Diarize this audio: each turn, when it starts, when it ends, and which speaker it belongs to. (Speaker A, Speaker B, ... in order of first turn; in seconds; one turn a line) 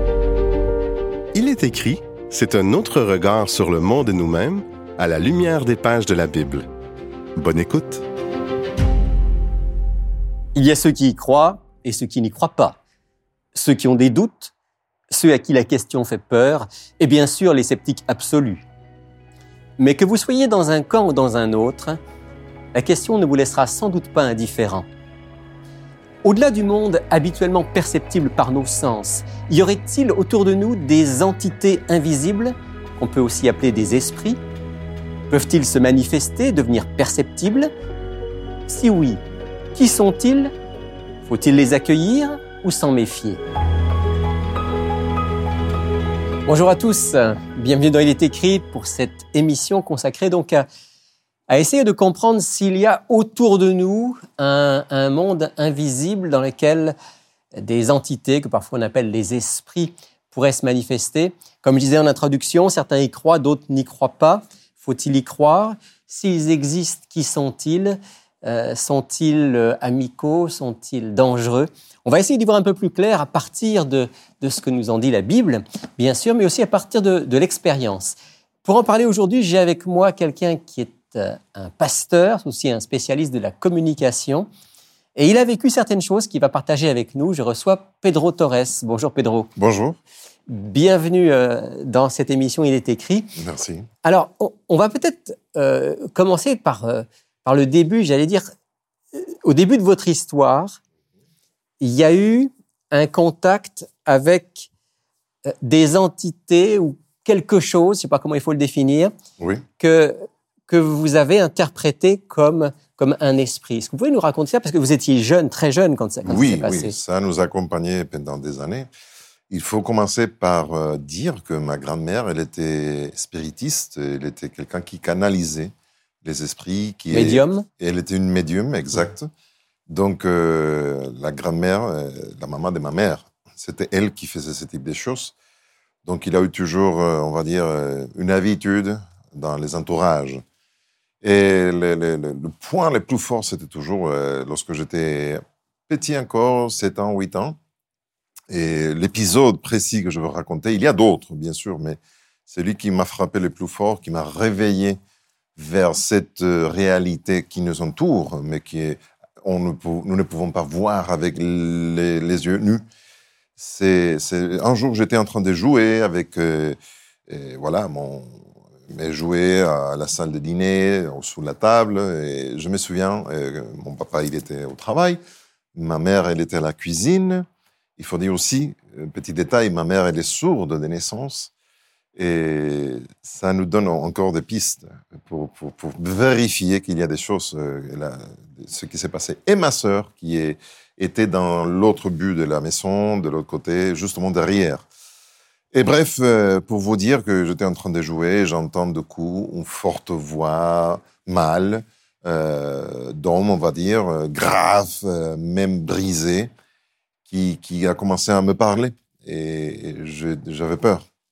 Speaker A: 1.3-6.7
Speaker A: 7.3-8.1
Speaker B: 10.6-12.8
Speaker B: 13.5-14.5
Speaker B: 15.1-18.6
Speaker B: 19.8-22.0
Speaker B: 22.7-24.9
Speaker B: 26.2-34.4
Speaker B: 35.3-37.7
Speaker B: 38.7-39.2
Speaker B: 39.7-40.5
Speaker B: 41.2-43.4
Speaker B: 46.5-50.6
Speaker B: 51.5-57.0
Speaker B: 57.5-84.5
Speaker B: 85.2-89.5
Speaker C: 89.6-90.0
Speaker B: 90.5-93.3
Speaker C: 93.4-93.9
Speaker B: 94.0-98.5
Speaker B: 99.1-100.8
Speaker B: 101.8-104.7
Speaker B: 105.5-109.1
Speaker C: 109.4-109.6
Speaker B: 109.8-117.0
Speaker C: 116.2-118.9
Speaker C: 119.5-129.3
Speaker B: 127.1-127.7
Speaker C: 129.9-135.3
Speaker C: 136.0-140.4
Speaker C: 141.2-147.6
Speaker C: 148.5-155.0
Speaker C: 155.6-162.8
Speaker C: 163.6-166.8
Speaker C: 167.3-175.2
Speaker C: 175.7-177.4
Speaker C: 178.0-181.5
Speaker C: 182.2-194.9
Speaker C: 195.7-206.5
Speaker C: 207.3-211.1